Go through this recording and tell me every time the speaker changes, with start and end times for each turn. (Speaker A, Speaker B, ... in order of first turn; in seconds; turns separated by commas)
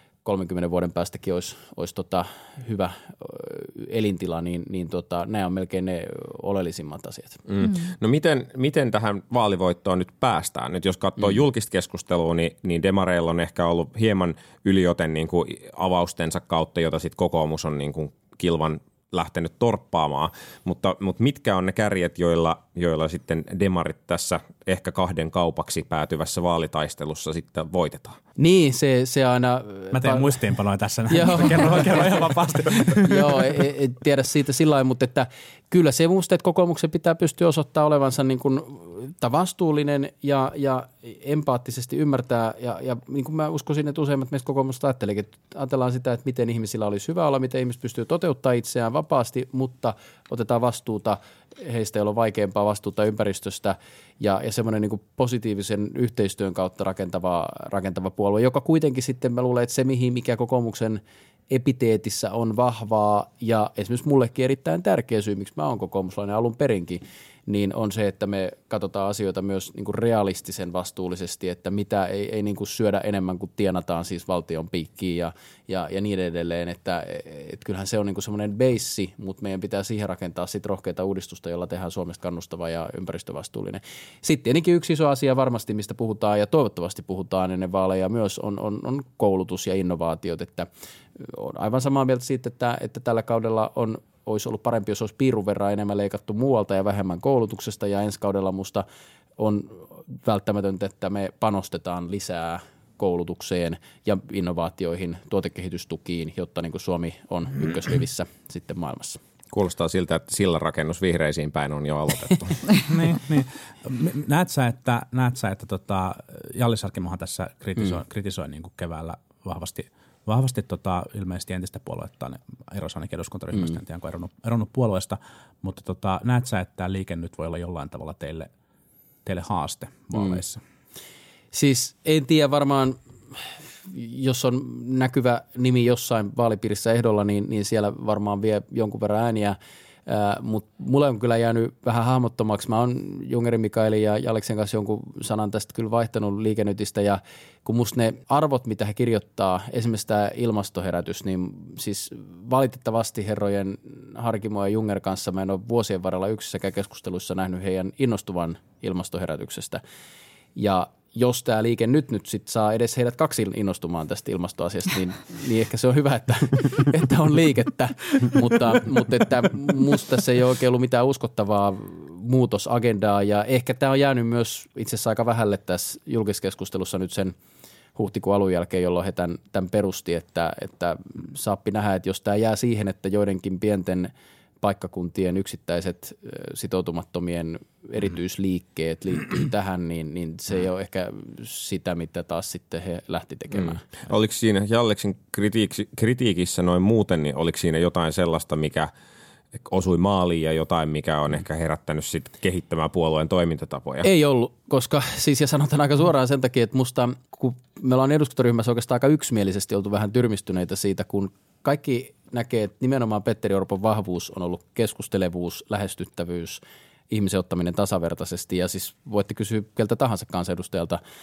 Speaker A: 0.2-7.4, Speaker B: 7.5-28.2, Speaker A: 28.4-30.4, Speaker C: 29.9-33.6, Speaker A: 31.1-32.3, Speaker A: 33.0-98.9, Speaker A: 99.4-109.2, Speaker B: 109.5-112.8, Speaker C: 112.9-128.5, Speaker C: 129.2-130.6, Speaker A: 130.1-130.4, Speaker A: 131.5-159.8, Speaker A: 160.6-177.3, Speaker A: 177.9-193.8, Speaker B: 193.6-198.9, Speaker B: 199.6-204.1, Speaker A: 204.0-221.0